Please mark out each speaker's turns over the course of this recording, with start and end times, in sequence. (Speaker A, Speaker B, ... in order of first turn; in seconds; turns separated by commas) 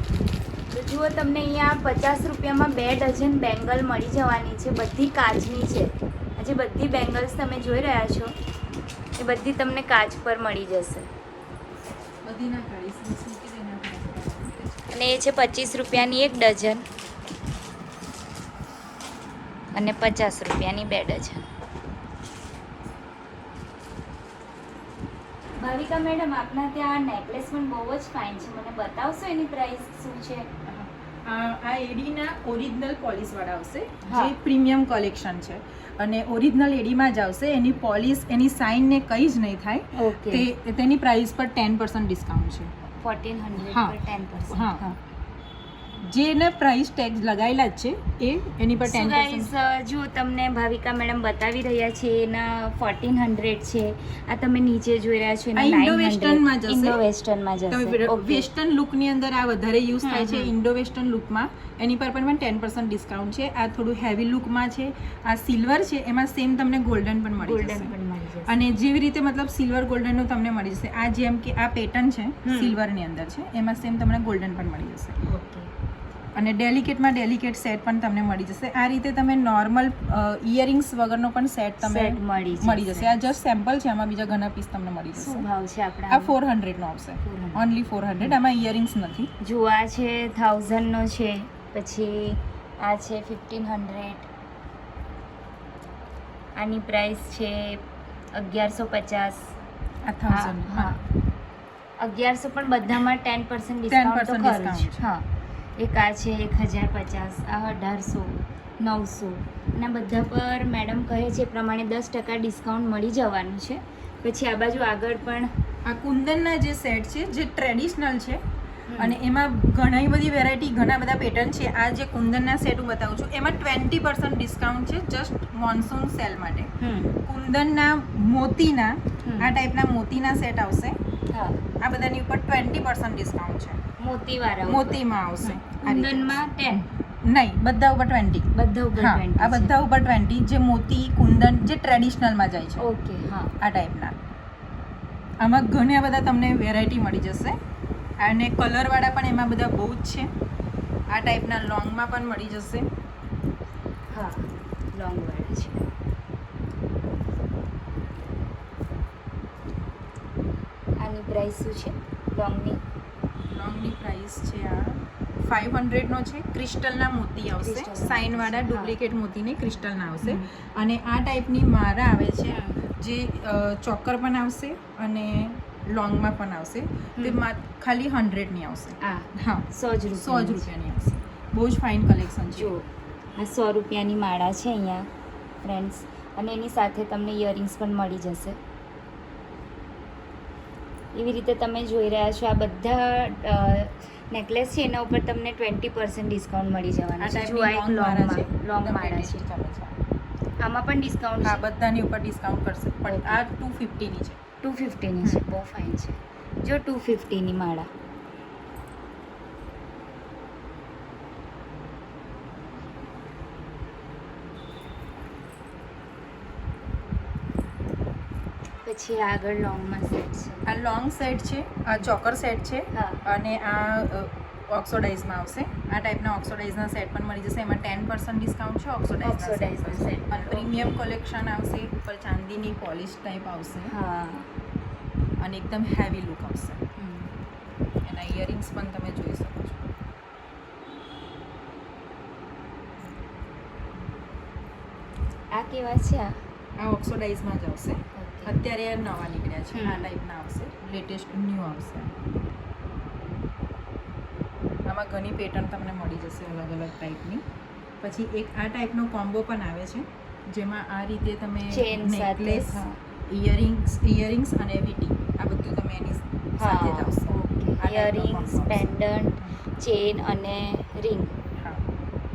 Speaker A: 0.7-8.3, Speaker A: 9.2-11.1, Speaker B: 12.2-14.8, Speaker A: 14.9-16.8, Speaker A: 19.7-21.4, Speaker A: 25.6-30.5, Speaker B: 30.6-42.7, Speaker A: 34.0-34.3, Speaker A: 39.9-40.5, Speaker A: 43.0-45.0, Speaker B: 43.7-44.0, Speaker B: 44.5-44.8, Speaker B: 46.0-49.5, Speaker A: 48.9-58.5, Speaker B: 55.5-57.0, Speaker B: 57.7-67.9, Speaker A: 60.0-60.5, Speaker A: 67.4-68.5, Speaker B: 68.5-75.2, Speaker A: 72.4-72.8, Speaker A: 75.2-75.7, Speaker B: 76.3-85.5, Speaker A: 81.8-83.1, Speaker A: 85.1-86.3, Speaker B: 86.1-89.3, Speaker A: 87.2-87.6, Speaker A: 89.4-94.3, Speaker A: 96.5-97.8, Speaker A: 98.3-99.5, Speaker B: 100.0-101.0, Speaker A: 100.3-101.0, Speaker A: 102.0-105.2, Speaker B: 103.9-105.0, Speaker A: 105.8-115.5, Speaker B: 115.8-118.4, Speaker A: 118.9-119.2, Speaker B: 119.0-126.7, Speaker A: 126.8-127.1, Speaker B: 127.2-131.0, Speaker A: 129.2-129.5, Speaker A: 131.3-131.6, Speaker B: 131.8-133.8, Speaker A: 134.0-136.9, Speaker B: 134.7-136.4, Speaker B: 137.2-142.8, Speaker A: 138.5-139.8, Speaker A: 142.8-143.5, Speaker B: 143.6-144.2, Speaker B: 145.4-147.6, Speaker B: 148.2-150.3, Speaker B: 151.1-152.9, Speaker A: 154.1-155.8, Speaker A: 161.0-162.8, Speaker B: 163.5-182.7, Speaker A: 167.6-168.9, Speaker A: 170.2-170.5, Speaker A: 172.5-172.8, Speaker A: 179.0-180.7, Speaker A: 182.6-185.1, Speaker A: 185.6-188.6, Speaker A: 191.1-199.4, Speaker B: 197.2-200.0, Speaker A: 200.6-201.6, Speaker B: 201.4-204.4, Speaker A: 203.1-203.4, Speaker A: 204.6-207.9, Speaker A: 218.8-220.7, Speaker B: 220.7-233.9, Speaker A: 222.9-223.2, Speaker A: 229.2-231.0, Speaker A: 233.9-234.5, Speaker B: 235.4-236.8, Speaker A: 237.0-237.3, Speaker B: 238.0-239.8, Speaker A: 245.5-246.4, Speaker B: 246.8-252.2, Speaker A: 248.2-248.6, Speaker A: 249.7-250.1, Speaker B: 254.8-257.4, Speaker B: 258.0-269.5, Speaker A: 261.7-263.0, Speaker A: 266.6-271.3, Speaker B: 271.6-271.8